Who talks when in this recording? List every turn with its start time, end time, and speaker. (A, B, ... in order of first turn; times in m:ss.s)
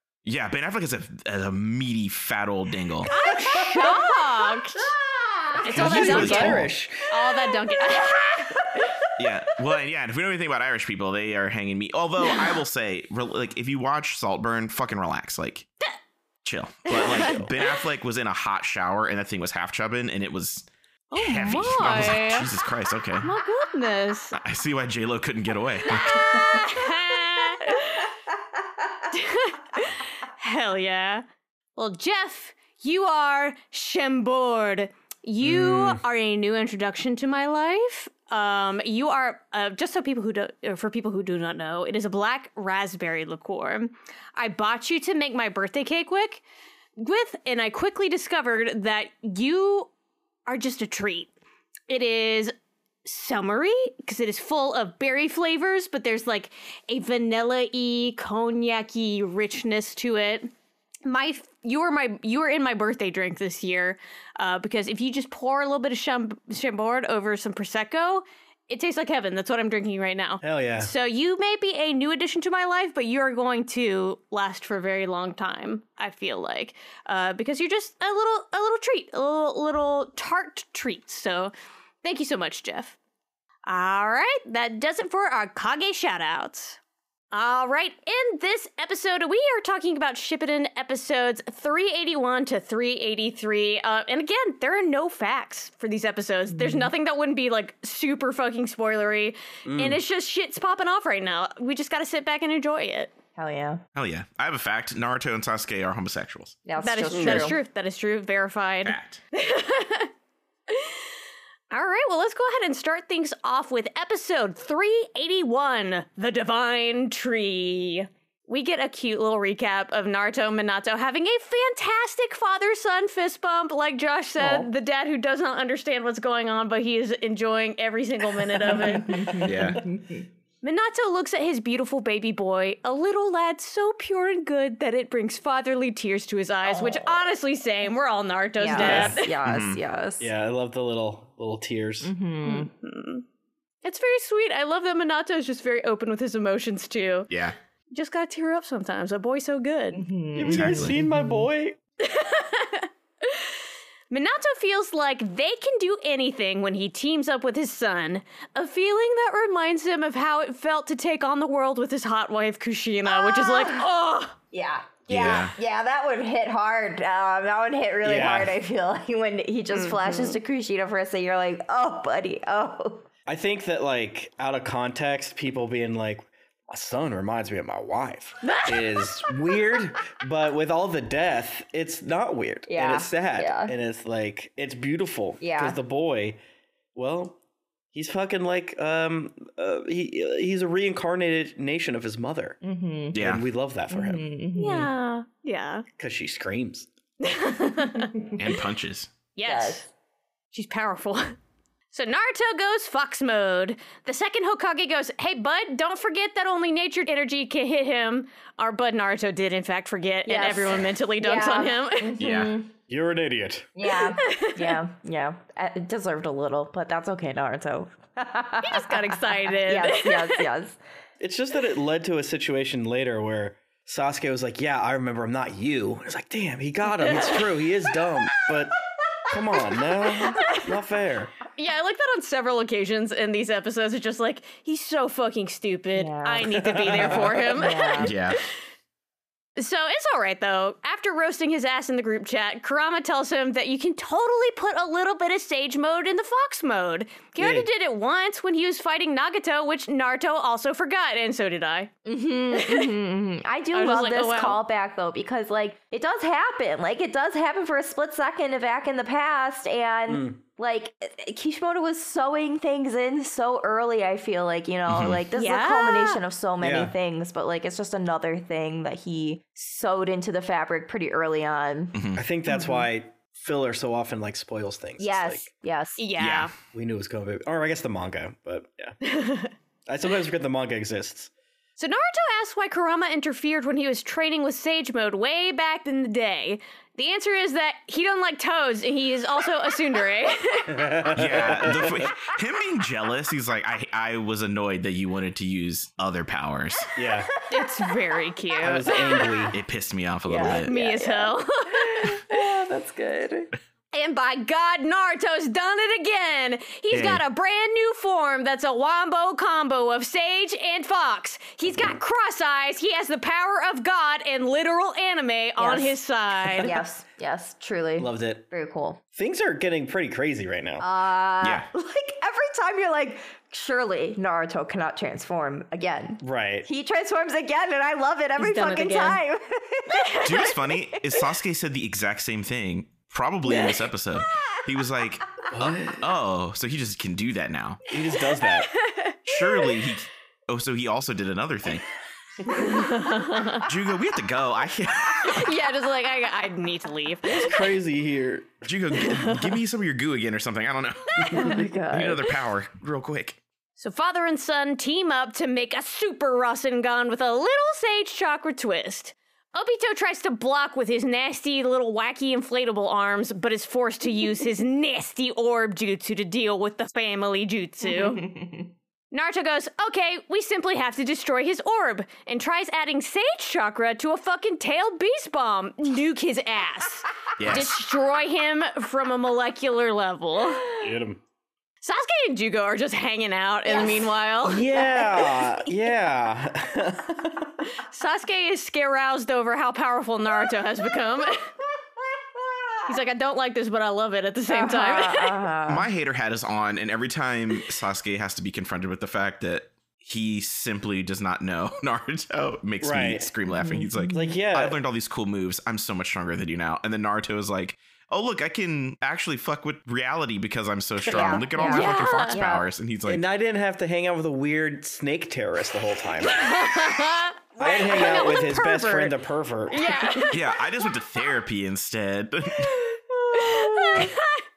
0:00.2-0:03.1 A
0:03.1-0:04.9 B
0:03.5-0:06.2 C
0:05.5-0:09.0 B
0:05.7-0:06.7 A
0:05.7-0:07.1 D
0:07.8-0:08.1 C
0:09.1-0:15.7 A
0:16.4-0:23.3 A
0:16.9-0:17.7 B
0:21.1-0:22.5 B
0:23.2-0:24.4 B
0:24.4-0:26.5 A
0:25.8-0:28.1 B
0:28.6-0:28.9 C
0:29.1-0:31.2 B
0:31.8-0:46.4 B
0:35.4-0:36.0 D
0:47.0-0:49.9 B
0:50.5-0:51.3 B
0:51.9-0:52.5 B
0:53.0-1:00.5 B
1:01.0-1:23.0 B
1:10.4-1:10.9 D
1:23.6-1:26.8 B
1:27.3-1:43.1 B
1:36.5-1:36.9 C
1:39.6-1:40.0 D
1:43.4-1:43.8 C
1:43.9-1:46.6 A
1:46.6-1:47.6 C
1:46.8-1:50.1 B
1:47.1-1:47.5 D
1:48.8-1:49.2 A
1:50.7-1:51.0 B
1:51.7-2:09.4 B
2:04.4-2:04.7 C
2:08.6-2:10.2 C
2:09.4-2:09.8 A
2:10.6-2:19.3 B
2:16.6-2:17.2 C
2:18.6-2:20.3 C
2:18.7-2:19.2 D
2:19.4-2:19.8 A
2:20.2-2:22.1 D
2:22.0-2:22.7 C
2:22.4-2:23.2 B
2:23.8-2:27.3 B
2:27.3-2:27.5 A
2:27.9-2:30.0 B
2:29.9-2:31.5 C
2:30.3-2:31.8 D
2:30.5-2:31.0 A
2:32.0-2:33.5 B
2:34.1-2:44.4 B
2:43.0-2:43.8 C
2:44.5-2:53.0 C
2:45.1-2:45.5 A
2:48.0-2:48.6 D
2:49.7-2:50.4 B
2:53.3-3:06.4 D
2:58.4-2:59.3 B
3:02.7-3:03.7 C
3:05.4-3:05.8 C
3:06.9-3:07.4 D
3:07.9-3:12.6 D
3:12.6-3:13.2 C
3:13.1-3:13.4 A
3:13.1-3:14.2 D
3:13.9-3:14.9 C
3:14.6-3:15.8 B
3:16.0-3:16.9 D
3:17.2-3:18.1 B
3:18.0-3:18.4 C
3:18.3-3:19.1 A
3:19.4-3:19.9 B
3:19.4-3:19.8 C
3:20.5-3:21.4 B
3:21.9-3:32.1 B
3:30.2-3:32.7 C
3:32.2-3:32.6 A
3:32.9-3:33.7 D
3:33.8-3:40.8 C
3:33.9-3:34.8 B
3:38.6-3:40.4 B
3:41.2-3:48.8 D
3:47.0-3:47.4 B
3:49.3-3:51.3 D
3:49.5-3:50.6 C
3:50.2-3:50.6 B
3:51.5-3:58.3 B
3:55.9-3:58.1 C
3:56.4-3:57.5 D
3:58.0-3:58.4 A
3:59.6-4:11.9 B
4:07.4-4:07.7 D
4:12.0-4:32.0 C
4:12.5-4:12.9 B
4:13.7-4:14.6 B
4:20.1-4:20.4 D
4:24.9-4:25.2 A
4:25.4-4:26.2 B
4:26.6-4:26.9 D
4:31.9-4:32.2 A
4:32.2-4:35.4 D
4:32.5-4:32.9 C
4:35.0-4:36.0 C
4:36.0-4:36.5 B
4:36.2-4:36.5 A
4:36.7-4:39.0 D
4:39.0-4:39.5 B
4:39.9-4:41.3 D
4:41.8-4:51.0 B
4:50.7-4:52.1 D
4:51.1-4:56.9 A
4:56.9-4:57.3 D
4:57.2-4:58.2 C
4:57.5-4:59.2 B
4:58.6-4:59.6 D
4:58.8-4:59.6 C
4:59.5-5:00.7 A
5:00.2-5:03.5 C
5:00.5-5:02.4 B
5:03.9-5:16.7 B
5:06.9-5:07.2 A
5:15.6-5:16.0 C
5:16.6-5:19.0 C
5:18.0-5:18.4 D
5:19.1-5:20.8 D
5:20.8-5:31.0 C
5:21.4-5:21.6 A
5:26.2-5:26.7 D
5:28.4-5:29.2 B
5:30.2-5:37.8 A
5:33.4-5:33.8 C
5:35.5-5:36.0 D
5:37.9-5:38.7 D
5:38.7-5:39.5 B
5:39.2-5:41.8 A
5:42.5-5:43.6 B
5:43.6-5:45.5 A
5:45.1-5:47.6 B
5:47.2-5:48.6 D
5:48.6-5:53.4 A
5:49.0-5:49.6 B
5:51.3-5:51.6 D
5:51.3-5:52.3 C
5:53.8-6:08.2 B
6:07.8-6:08.7 C
6:09.1-6:20.7 B
6:17.4-6:17.8 A
6:20.8-6:21.2 D
6:21.8-6:24.7 B
6:23.7-6:24.1 C
6:24.4-6:27.6 D
6:24.7-6:25.5 C
6:27.7-6:31.5 B
6:32.4-6:32.8 C
6:32.8-6:35.4 B
6:34.5-6:35.9 C
6:35.7-6:53.2 A
6:42.8-6:43.3 D
6:43.5-6:44.4 C
6:44.1-6:44.8 D
6:51.1-6:52.6 C
6:51.7-6:52.4 B
6:53.1-6:56.4 D
6:56.2-6:59.2 B
6:57.6-7:00.2 D
6:59.7-7:00.6 B
7:00.3-7:02.8 A
7:03.1-7:04.1 D
7:03.3-7:04.4 B